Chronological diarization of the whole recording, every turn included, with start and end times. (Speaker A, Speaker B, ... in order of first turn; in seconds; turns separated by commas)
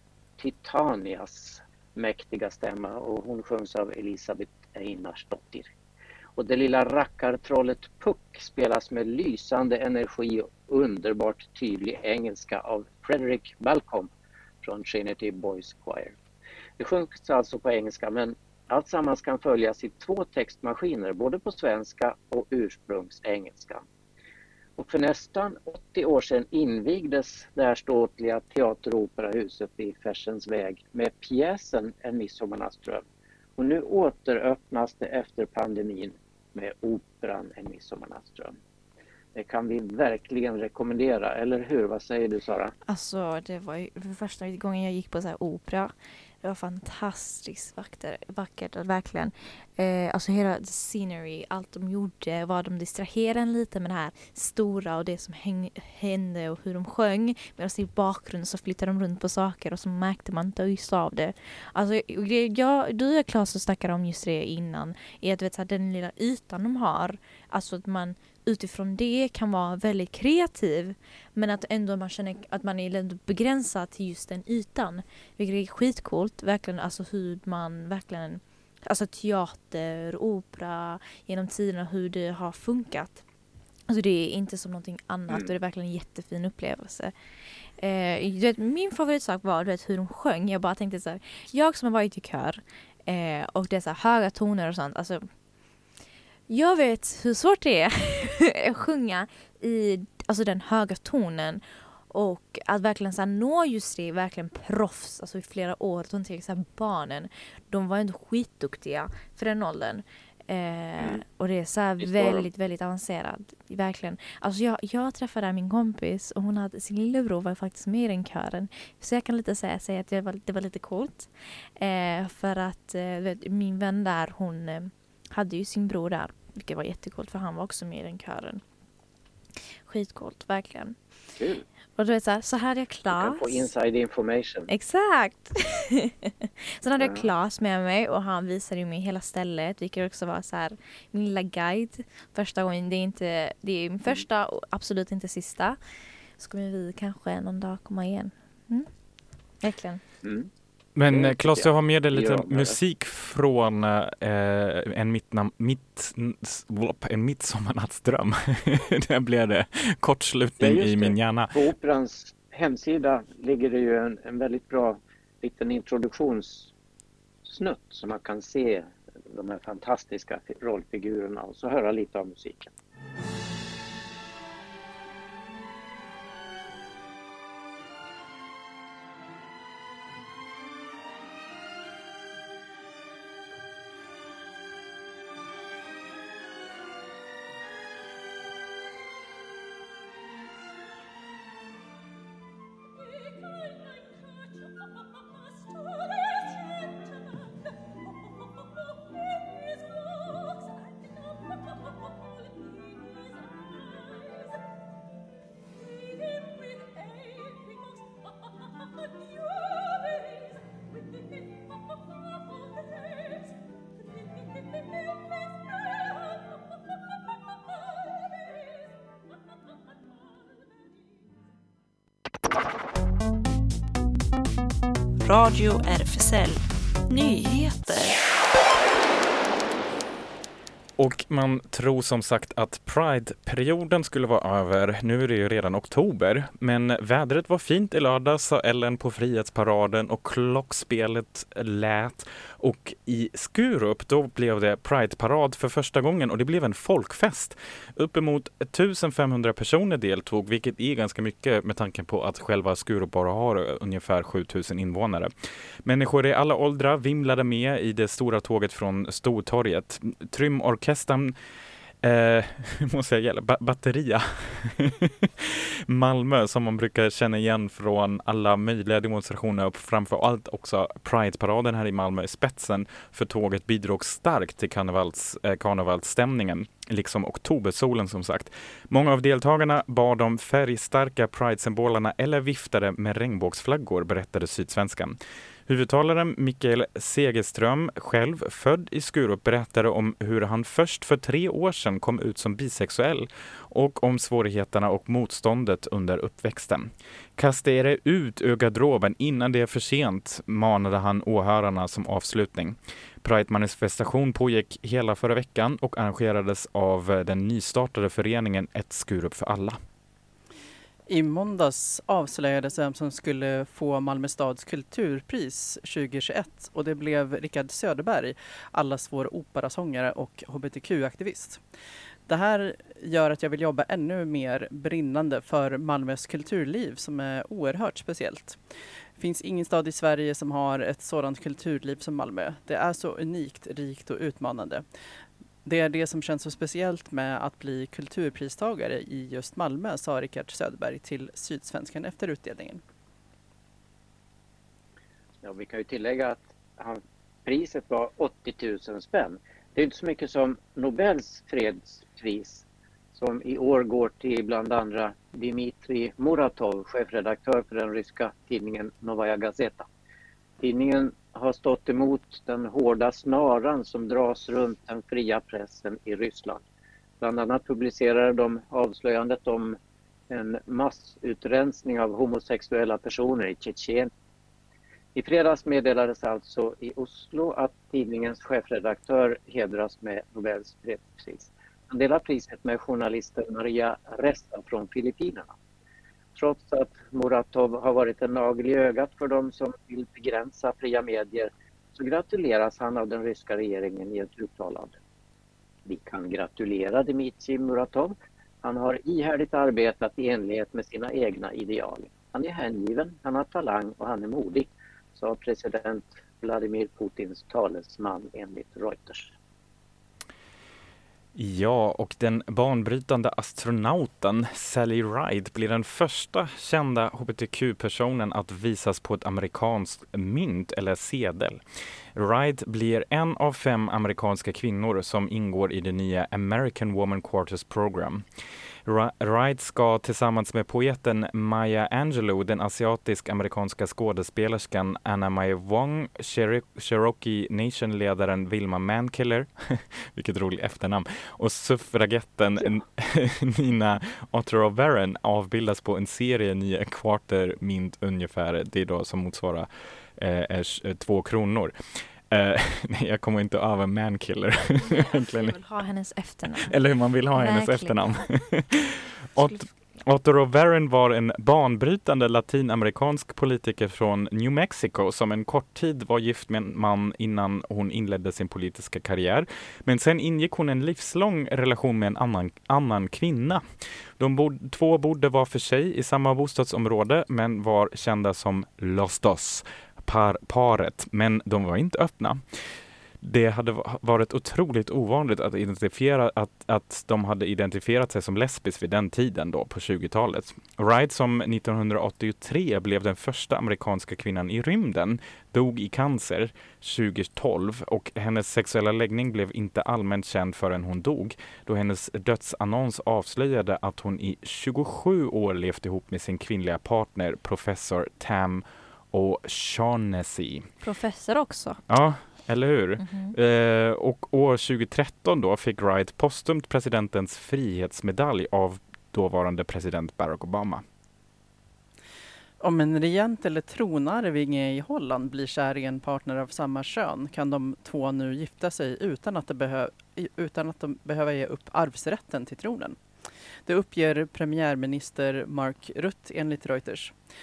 Speaker A: 0.4-5.7, Speaker A: 6.4-14.1, Speaker A: 14.6-16.1, Speaker A: 16.8-23.8, Speaker A: 24.8-33.0, Speaker A: 33.6-38.5, Speaker A: 39.3-42.7, Speaker B: 42.9-83.2, Speaker B: 83.9-87.1, Speaker A: 85.3-85.5, Speaker B: 87.8-95.2, Speaker B: 96.5-128.6, Speaker A: 112.0-112.5, Speaker B: 129.8-130.9, Speaker A: 131.4-131.7, Speaker B: 131.9-133.7, Speaker A: 133.1-134.7, Speaker B: 134.7-145.8, Speaker A: 137.0-137.3, Speaker B: 146.4-148.9, Speaker B: 149.6-150.0, Speaker A: 150.2-150.5, Speaker C: 150.9-161.6, Speaker A: 151.1-152.8, Speaker A: 160.6-166.7, Speaker A: 167.4-172.7, Speaker D: 225.2-228.2, Speaker C: 231.0-255.3, Speaker C: 255.8-261.3, Speaker C: 262.0-309.8, Speaker E: 311.1-321.6, Speaker E: 322.3-328.6, Speaker E: 329.2-334.8, Speaker E: 335.6-342.8, Speaker A: 345.4-359.9, Speaker A: 360.6-366.6, Speaker A: 367.2-369.8, Speaker A: 370.3-374.1, Speaker A: 375.1-385.5, Speaker A: 386.3-395.0, Speaker A: 395.9-409.3, Speaker C: 411.3-421.6, Speaker C: 422.1-428.2, Speaker C: 428.8-451.7, Speaker C: 452.3-455.6, Speaker B: 454.8-456.8, Speaker C: 456.5-473.6, Speaker B: 457.3-458.2, Speaker B: 459.4-459.7, Speaker C: 474.2-482.6, Speaker C: 483.2-510.6, Speaker B: 510.8-511.8, Speaker C: 511.9-520.8, Speaker B: 513.0-513.3, Speaker E: 522.6-533.0, Speaker E: 533.6-537.1